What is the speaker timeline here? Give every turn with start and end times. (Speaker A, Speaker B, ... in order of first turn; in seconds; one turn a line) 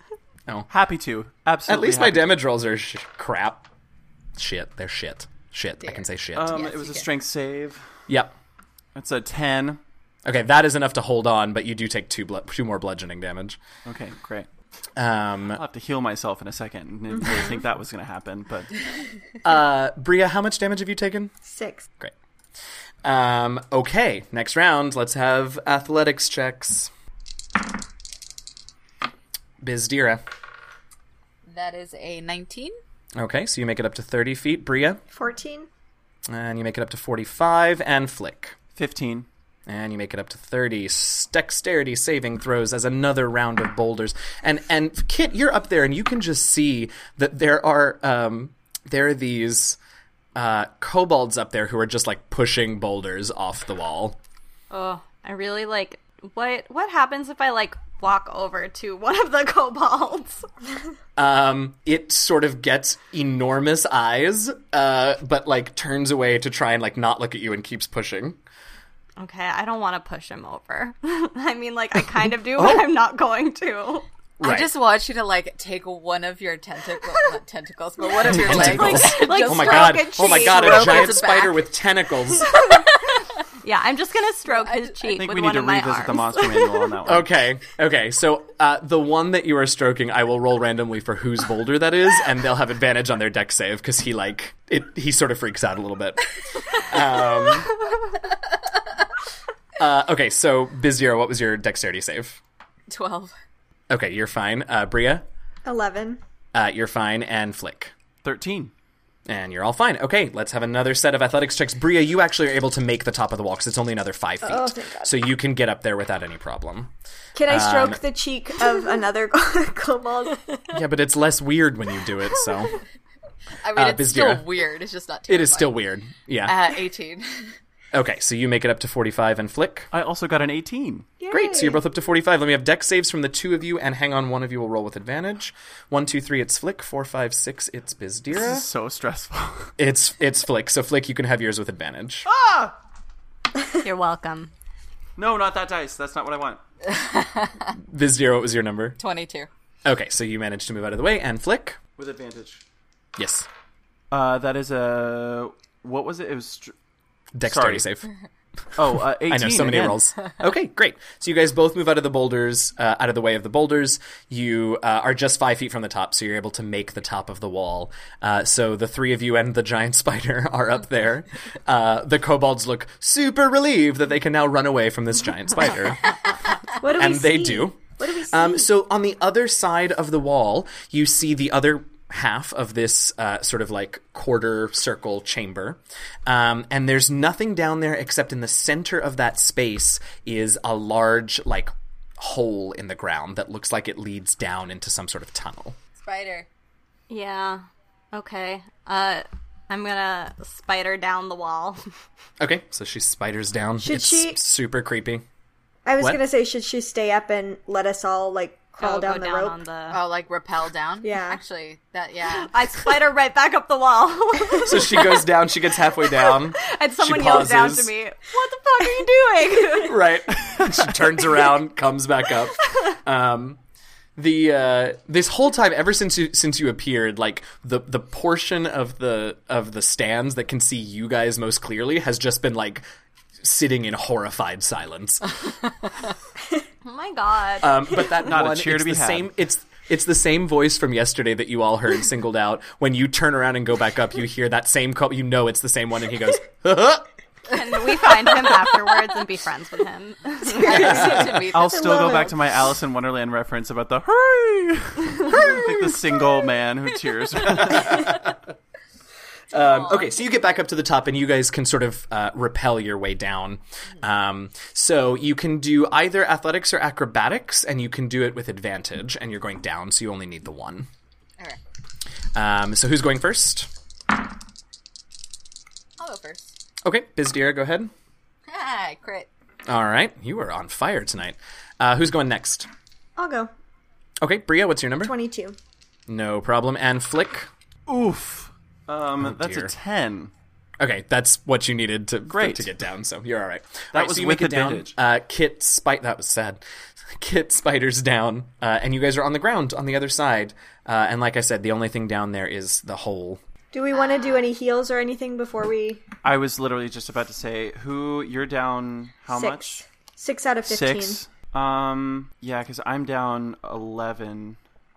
Speaker A: 0.7-2.3
Speaker B: 1.7-3.7
Speaker B: 4.4-6.6
Speaker C: 5.8-7.1
Speaker A: 6.3-8.0
Speaker B: 8.1-8.3
Speaker A: 8.9-9.8
Speaker B: 10.2-13.6
Speaker A: 13.8-14.5
Speaker B: 15.0-15.6
Speaker A: 15.5-18.8
Speaker B: 19.4-21.3
Speaker D: 21.4-21.9
Speaker B: 23.0-26.9
Speaker B: 29.6-30.2
Speaker C: 31.5-32.8
Speaker B: 33.2-35.0
Speaker D: 35.1-35.7
Speaker B: 36.3-38.6
Speaker A: 38.8-39.3
Speaker B: 39.7-49.8
Speaker B: 50.4-54.2
Speaker E: 54.7-60.5
Speaker B: 61.2-68.4
Speaker E: 69.2-74.1
Speaker B: 72.6-72.9
Speaker B: 74.4-74.7
Speaker C: 74.4-81.7
Speaker E: 78.2-81.2
Speaker B: 78.3-82.6
Speaker C: 82.4-83.2
Speaker E: 83.6-86.8
Speaker C: 84.5-85.0
Speaker A: 85.1-87.3
Speaker B: 87.1-97.7
Speaker B: 99.8-102.4
Speaker C: 102.9-103.3
Speaker B: 103.9-105.3
Speaker D: 105.7-106.2
Speaker B: 106.5-107.9
Speaker A: 108.2-108.7
Speaker B: 109.3-116.9
Speaker D: 114.4-115.2
Speaker D: 117.3-120.6
Speaker B: 117.5-118.0
Speaker B: 120.7-122.8
Speaker C: 123.6-125.8
Speaker B: 123.7-124.5
Speaker B: 125.3-126.6
Speaker C: 126.4-127.6
Speaker B: 127.9-129.9
Speaker A: 129.9-131.1
Speaker D: 131.2-131.8
Speaker B: 131.3-138.7
Speaker A: 138.3-139.7
Speaker B: 139.8-142.3
Speaker A: 142.3-142.8
Speaker E: 143.8-144.5
Speaker A: 145.2-146.6
Speaker C: 146.9-147.7
Speaker B: 147.9-149.0
Speaker C: 149.0-149.5
Speaker B: 149.8-151.8
Speaker A: 152.0-152.6
Speaker B: 153.2-153.5
Speaker A: 154.1-156.7
Speaker B: 157.3-158.1
Speaker A: 157.4-157.9
Speaker A: 158.8-160.1
Speaker B: 159.3-176.3
Speaker D: 176.8-178.7
Speaker B: 176.9-195.8
Speaker C: 196.0-196.5
Speaker E: 197.1-201.8
Speaker B: 202.4-205.2
Speaker D: 203.8-204.4
Speaker D: 205.8-209.6
Speaker E: 208.8-210.0
Speaker C: 209.9-212.5
Speaker D: 211.0-211.4
Speaker E: 212.4-215.3
Speaker B: 214.6-217.9
Speaker E: 216.0-220.1
Speaker B: 219.8-223.6
Speaker B: 224.2-232.8
Speaker B: 233.4-235.4
Speaker E: 236.8-238.1
Speaker B: 237.6-247.1
Speaker A: 238.2-239.3
Speaker E: 247.5-251.2
Speaker D: 250.5-252.3
Speaker C: 250.5-252.3
Speaker A: 251.3-258.2
Speaker B: 259.5-270.9
Speaker C: 259.5-260.1
Speaker B: 272.4-273.7
Speaker C: 276.0-276.5
Speaker B: 276.8-277.9
Speaker C: 278.5-279.3
Speaker B: 279.7-282.7
Speaker D: 283.2-283.5
Speaker B: 284.2-285.1
Speaker D: 285.0-285.6
Speaker B: 286.1-287.5
Speaker A: 287.9-290.3
Speaker B: 289.2-289.7
Speaker B: 290.8-303.4
Speaker A: 292.3-292.7
Speaker A: 293.9-294.9
Speaker D: 303.7-306.0
Speaker C: 303.9-304.4
Speaker A: 306.2-309.9
Speaker D: 309.3-311.2
Speaker A: 310.6-314.6